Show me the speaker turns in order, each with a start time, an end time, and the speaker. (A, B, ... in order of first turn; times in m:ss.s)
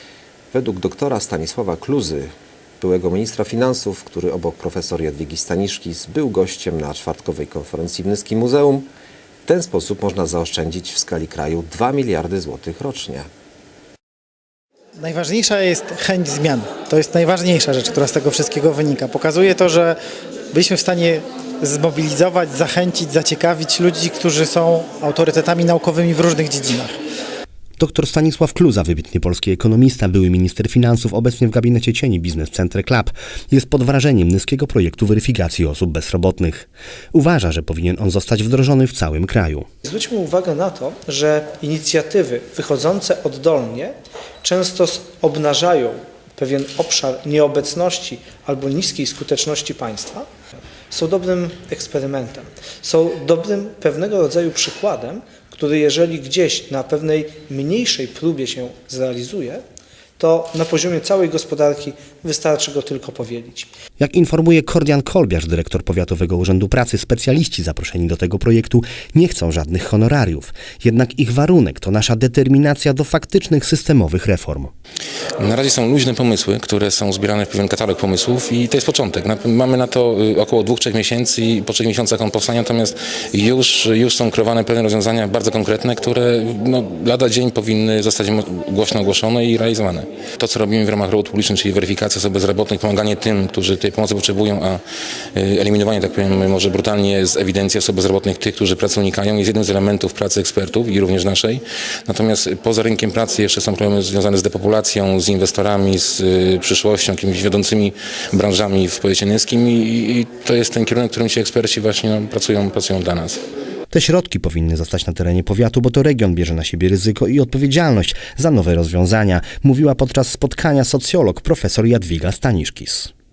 0:00.5-0:08.9 A
0:09.4-0:13.3 A
0:15.0-0:20.0 B
0:20.5-0:26.9 B
0:27.8-0:39.7 C
0:39.8-0:50.3 D
0:50.9-0:59.6 D
1:00.2-1:03.7 D
1:04.0-1:14.7 C
1:15.4-1:34.8 E
1:35.3-1:53.4 E
1:53.9-2:03.1 C